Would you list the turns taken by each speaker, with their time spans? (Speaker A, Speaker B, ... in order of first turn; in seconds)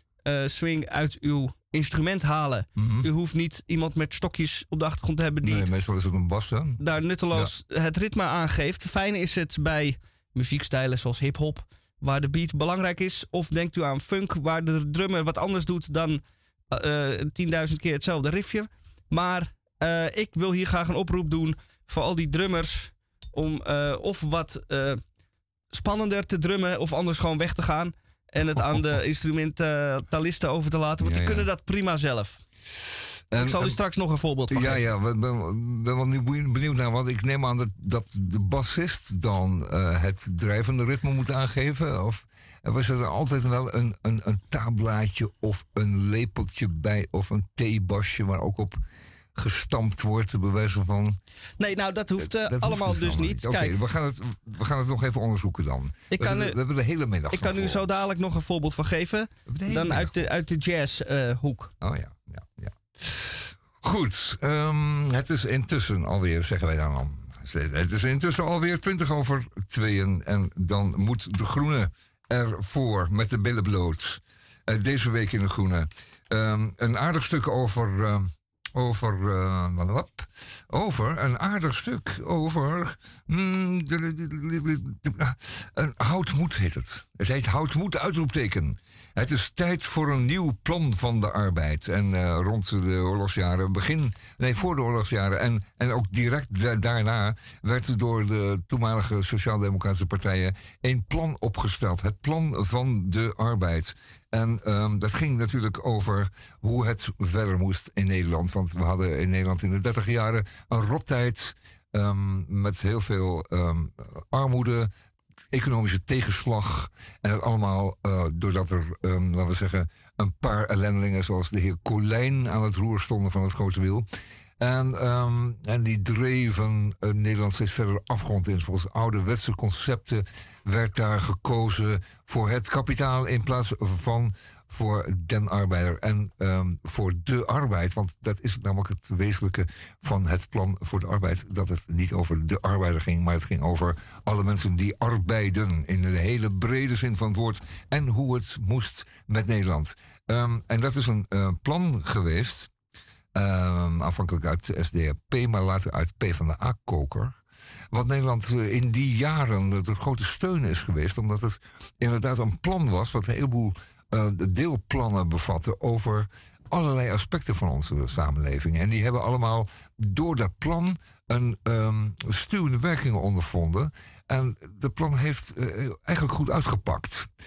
Speaker A: 0.2-5.7, 6.8-25.0, 25.7-32.4, 33.4-34.8, 51.6-53.7, 56.1-56.6, 57.3-61.7
Speaker B: 2.8-3.1, 5.4-7.5, 28.4-29.0, 31.0-31.5, 33.3-33.8, 34.5-48.8, 49.4-51.2, 52.2-58.0, 59.5-60.3, 61.8-114.9, 115.5-124.1, 124.6-152.7, 153.3-157.4, 157.9-177.3